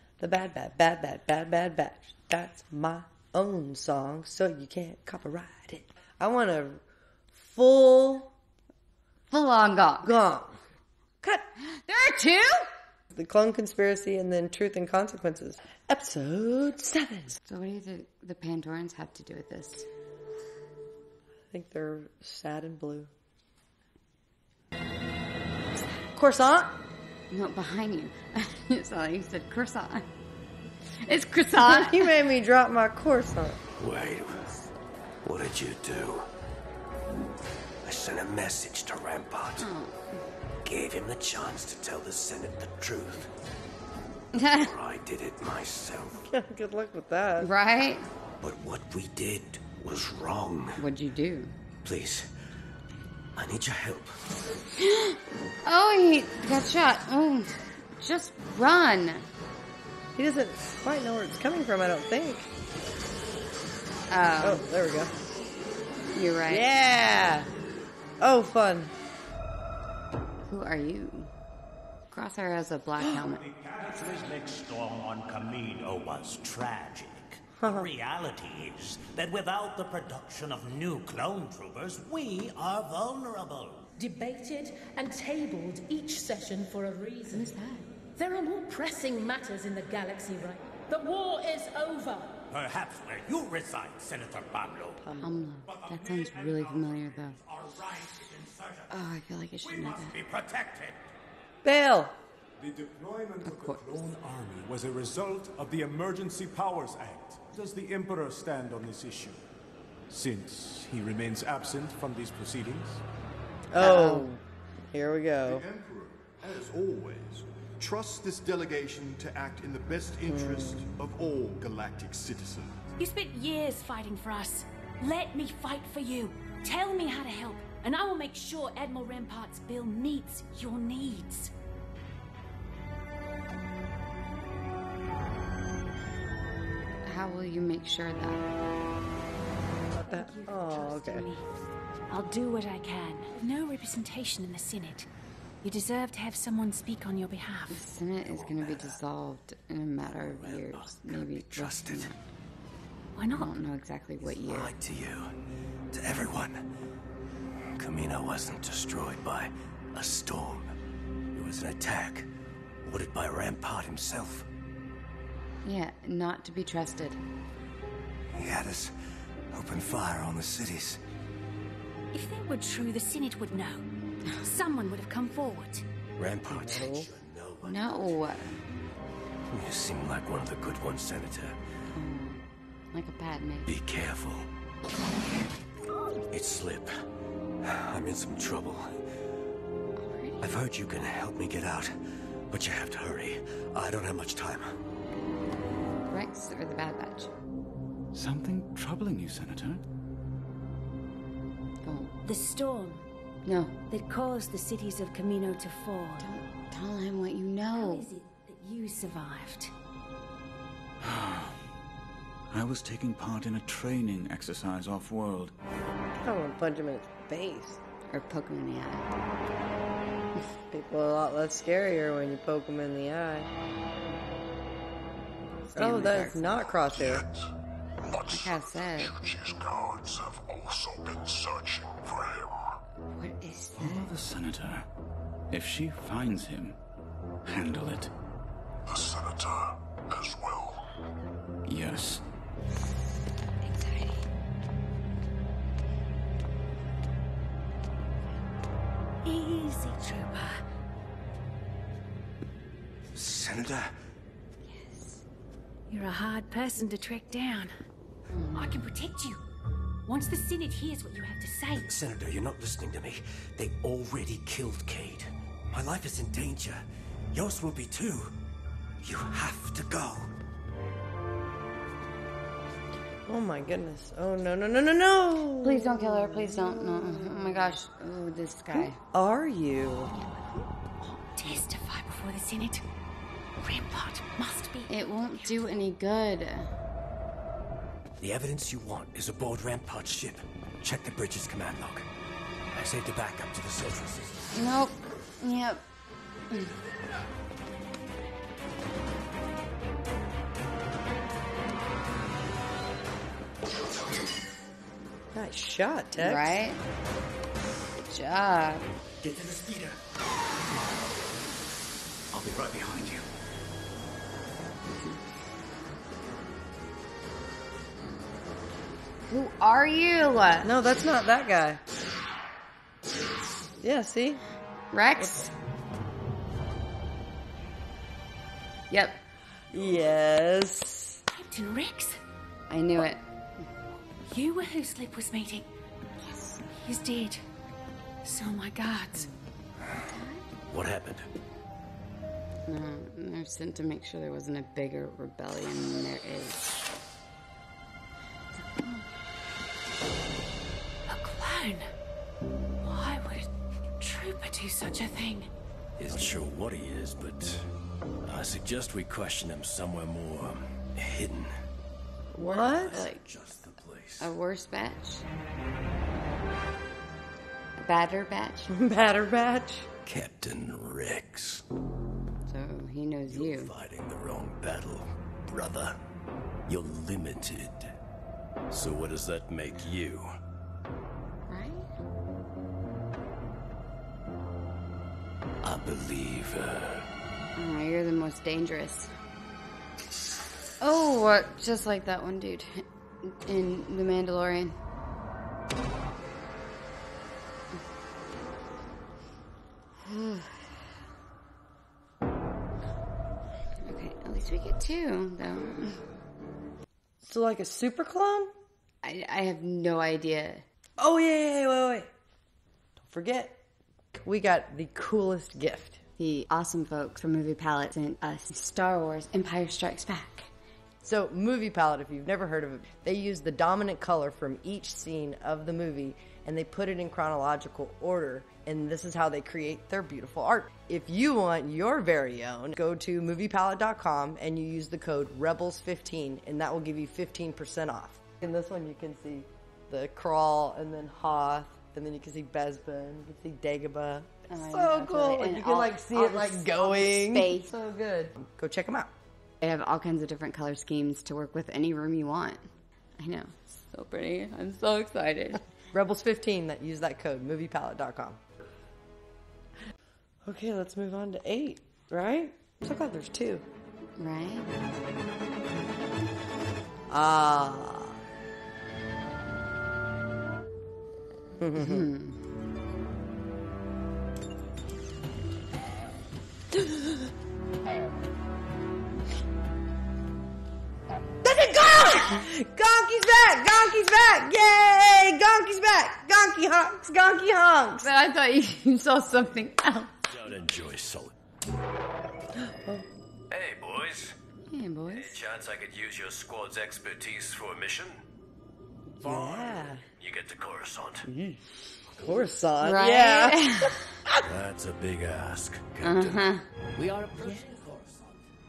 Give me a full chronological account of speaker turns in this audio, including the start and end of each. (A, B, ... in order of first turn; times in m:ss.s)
0:00.2-0:06.8 A
0:07.3-0:08.3 A
0:09.3-0:10.2 B
0:10.0-0:10.6 A
0:11.6-0:12.7 B
0:13.1-0:17.4 A
0:17.4-0:19.9 B
0:21.5-0:23.1 A
0:26.1-0:26.7 A
0:27.3-0:30.1 B
0:31.0-0:32.2 B
0:31.6-0:33.6 A
0:33.8-0:34.5 C
0:35.2-0:36.3 C
0:37.8-0:39.7 C
0:39.6-0:40.2 B
0:40.6-0:43.3 C
0:44.4-0:44.7 B
0:44.6-0:46.2 C
0:46.2-0:47.5 A
0:47.4-0:48.1 B
0:48.4-0:50.8 C
0:50.8-0:51.5 B
0:51.8-0:52.3 C
0:53.4-0:54.2 C
0:54.8-0:59.3 B
1:00.2-1:02.5 A
1:04.1-1:04.6 B
1:04.4-1:05.1 A
1:06.1-1:06.8 B
1:06.5-1:07.5 A
1:08.2-1:08.9 A
1:10.5-1:11.3 B
1:12.1-1:13.4 B
1:13.1-1:23.9 D
1:17.6-1:17.9 A
1:24.2-1:27.1 E
1:27.3-1:27.9 B
1:28.3-1:28.8 F
1:28.9-1:30.4 E
1:31.0-1:32.3 E
1:32.4-1:35.0 D
1:35.0-1:35.4 A
1:35.2-1:37.4 B
1:35.6-1:38.9 D
1:38.9-1:40.2 B
1:39.6-1:41.0 D
1:41.6-1:42.2 A
1:42.6-1:49.4 G
1:43.4-1:44.0 B
1:50.1-1:53.0 G
1:53.7-1:55.7 A
1:53.8-1:54.3 B
1:55.5-2:02.8 H
2:00.3-2:01.0 A
2:03.0-2:11.5 F
2:17.1-2:18.4 B
2:20.0-2:21.3 A
2:20.1-2:21.5 F
2:22.1-2:25.1 F
2:25.6-2:27.9 F
2:27.7-2:32.2 B
2:28.2-2:29.0 C
2:30.1-2:31.2 C
2:31.2-2:32.1 I
2:33.2-2:33.6 F
2:33.3-2:34.7 B
2:34.4-2:35.3 C
2:35.9-2:36.6 C
2:37.8-2:40.7 C
2:41.3-2:42.3 C
2:42.8-2:44.5 C
2:45.6-2:47.2 B
2:48.4-2:48.8 C
2:49.5-2:50.9 C
2:52.1-2:53.8 F
2:54.4-2:55.8 F
2:56.2-2:58.3 C
2:56.5-2:57.1 B
2:57.6-2:58.5 B
2:59.5-3:01.6 C
3:01.9-3:02.4 B
3:02.9-3:03.7 B
3:03.7-3:04.5 C
3:06.3-3:06.9 C
3:07.6-3:08.9 C
3:10.0-3:10.6 B
3:10.4-3:11.9 C
3:12.5-3:14.8 C
3:16.1-3:17.3 B
3:18.1-3:19.8 I
3:21.8-3:22.1 B
3:22.2-3:23.0 F
3:23.5-3:23.8 B
3:23.9-3:26.3 F
3:26.2-3:28.1 B
3:27.7-3:29.7 F
3:31.0-3:31.5 I
3:32.5-3:35.5 I
3:36.2-3:37.8 A
3:38.1-3:39.1 B
3:40.7-3:43.5 A
3:45.7-3:46.8 B
3:45.8-3:47.3 A
3:48.2-3:49.3 B
3:49.6-3:52.4 J
3:53.1-3:54.1 B
3:53.8-3:54.9 I
3:55.5-3:56.8 I
3:57.5-3:58.1 I
3:59.2-3:59.6 J
4:00.2-4:00.7 J
4:01.7-4:02.2 I
4:03.6-4:04.2 B
4:09.2-4:10.6 F
4:13.2-4:13.9 C
4:14.7-4:15.2 B
4:15.9-4:17.7 F
4:18.3-4:18.8 B
4:18.6-4:19.4 F
4:20.1-4:21.9 F
4:21.8-4:28.3 C
4:29.0-4:30.3 C
4:33.3-4:37.8 A
4:35.6-4:39.0 B
4:38.7-4:40.1 A
4:40.1-4:42.8 F
4:43.6-4:45.8 F
4:44.9-4:46.7 B
4:48.2-4:52.1 C
4:52.7-4:54.5 C
4:54.5-4:55.8 B
4:56.5-4:56.8 B
5:05.3-5:06.6 A
5:06.2-5:06.8 B
5:08.1-5:08.8 B
5:12.3-5:13.2 I
5:19.3-5:20.7 B
5:20.6-5:21.8 A
5:23.8-5:24.4 A
5:24.9-5:25.5 B
5:28.9-5:29.2 B
5:29.7-5:31.2 A
5:31.3-5:32.2 F
5:32.7-5:33.2 B
5:34.2-5:35.7 F
5:36.2-5:36.6 B
5:36.7-5:37.4 F
5:38.2-5:39.3 F
5:40.0-5:40.4 B
5:40.7-5:41.3 C
5:42.7-5:46.8 B
5:48.6-5:49.0 F
5:51.1-5:51.9 F
5:52.8-5:53.5 F
5:54.0-5:55.5 F
5:56.0-5:57.7 C
5:58.3-6:01.5 C
6:02.4-6:03.1 A
6:02.4-6:04.3 C
6:02.4-6:03.2 B
6:04.2-6:05.2 B
6:07.8-6:08.7 B
6:08.7-6:09.9 A
6:10.0-6:11.6 C
6:12.5-6:13.7 B
6:13.3-6:16.0 C
6:16.7-6:17.9 C
6:18.7-6:20.3 C
6:21.5-6:21.9 B
6:25.6-6:27.1 C
6:27.6-6:29.1 B
6:30.8-6:34.8 B
6:40.0-6:40.6 B
6:43.9-6:46.0 B
6:47.2-6:48.5 A
6:49.0-6:50.6 B
6:51.0-6:52.1 A
6:53.0-6:53.6 A
6:54.2-6:56.0 A
6:56.2-7:00.5 B
7:01.0-7:29.1 A
7:24.5-7:27.8 B
7:29.6-7:32.7 B
7:33.2-7:35.6 B
7:35.9-7:38.4 A
7:40.4-7:43.7 A
7:44.2-7:44.7 B
7:47.1-7:48.2 A
7:51.6-7:52.1 A
7:51.8-7:52.4 B
8:01.4-8:08.1 A
8:08.0-8:10.1 B
8:10.3-8:11.3 C
8:12.6-8:13.1 A
8:13.5-8:14.4 C
8:14.7-8:15.4 B
8:15.1-8:18.2 C
8:19.2-8:20.0 A
8:19.2-8:21.3 C
8:21.2-8:21.7 A
8:22.1-8:22.5 C
8:22.2-8:24.4 A
8:22.8-8:24.0 B
8:24.4-8:28.4 C
8:26.0-8:26.6 B
8:27.4-8:27.6 A